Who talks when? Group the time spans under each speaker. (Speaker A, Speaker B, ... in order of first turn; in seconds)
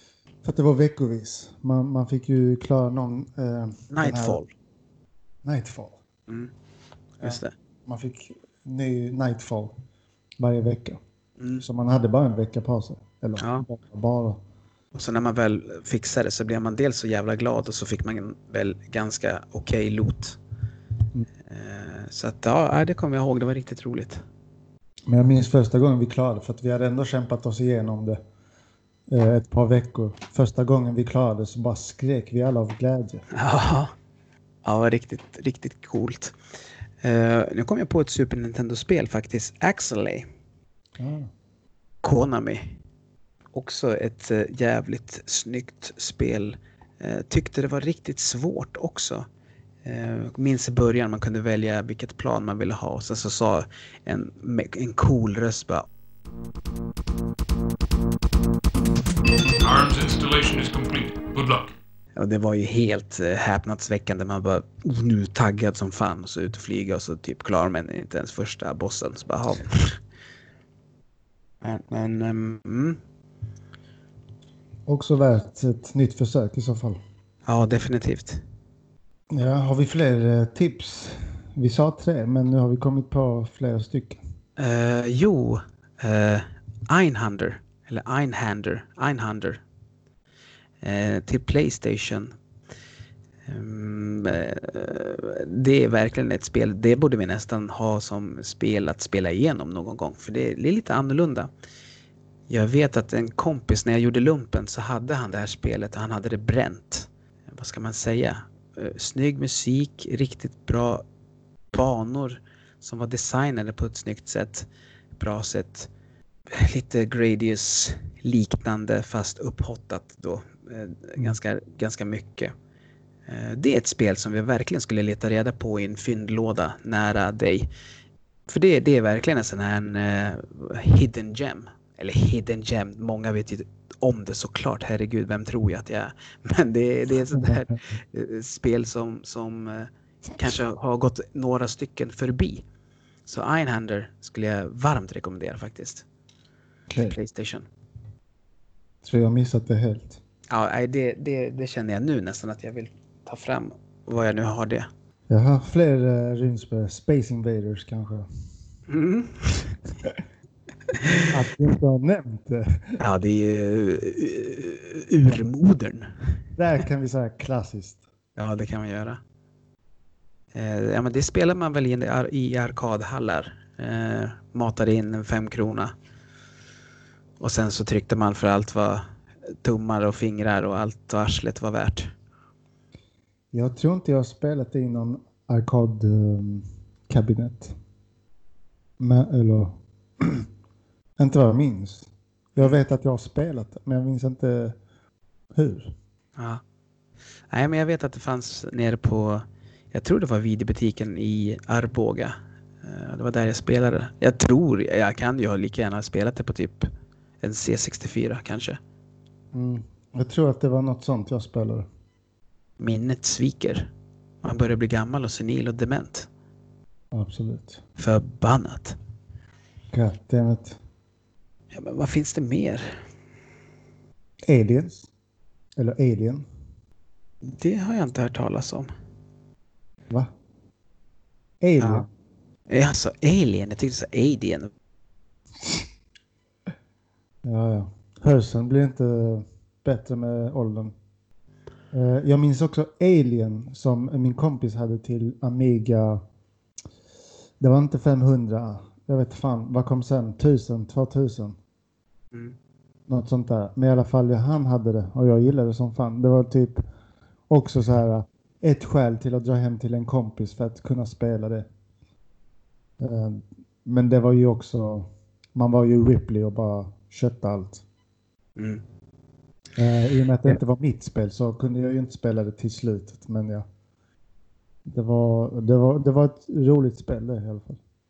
Speaker A: 0.4-4.4, 5.4-6.0, 7.2-9.8, 10.4-11.0, 11.6-14.4, 25.1-28.2, 29.1-33.2, 41.0-41.3, 74.9-77.0, 79.3-84.2, 137.3-137.6, 146.9-147.2, 149.0-150.2, 155.3-158.3, 161.3-163.0, 166.6-168.0, 183.5-187.8, 189.0-190.5, 191.2-194.8, 195.6-195.9, 209.5-211.9, 217.1-217.8, 219.9-220.8, 224.5-225.1, 225.8-226.5, 231.6-232.1, 237.4-240.9, 241.9-246.2, 247.6-251.6, 253.1-256.9, 257.5-261.7, 263.0-267.8, 269.8-273.6, 274.9-277.8
Speaker B: 3.9-4.5, 7.2-7.5, 11.4-11.6, 13.4-13.7, 14.9-20.4, 21.5-24.2, 33.3-33.9, 34.6-36.4, 37.0-40.3, 42.0-42.8, 43.5-49.3, 49.8-55.9, 62.1-70.0, 71.6-73.0, 77.5-78.4, 84.6-89.6, 90.8-92.3, 93.5-101.5, 102.5-111.0, 111.7-115.9, 116.5-122.5, 123.3-127.7, 128.5-142.6, 143.3-146.1, 147.1-147.7, 150.5-154.9, 158.9-159.8, 163.0-166.1, 168.4-169.2, 170.5-175.9, 177.4-179.0, 179.6-182.1, 196.4-196.6, 197.5-206.9, 207.4-208.8, 212.8-213.9, 214.4-216.3, 218.0-219.0, 221.7-223.0, 227.4-228.9, 231.8-232.1, 232.7-234.7, 268.6-268.8
Speaker C: 59.6-61.7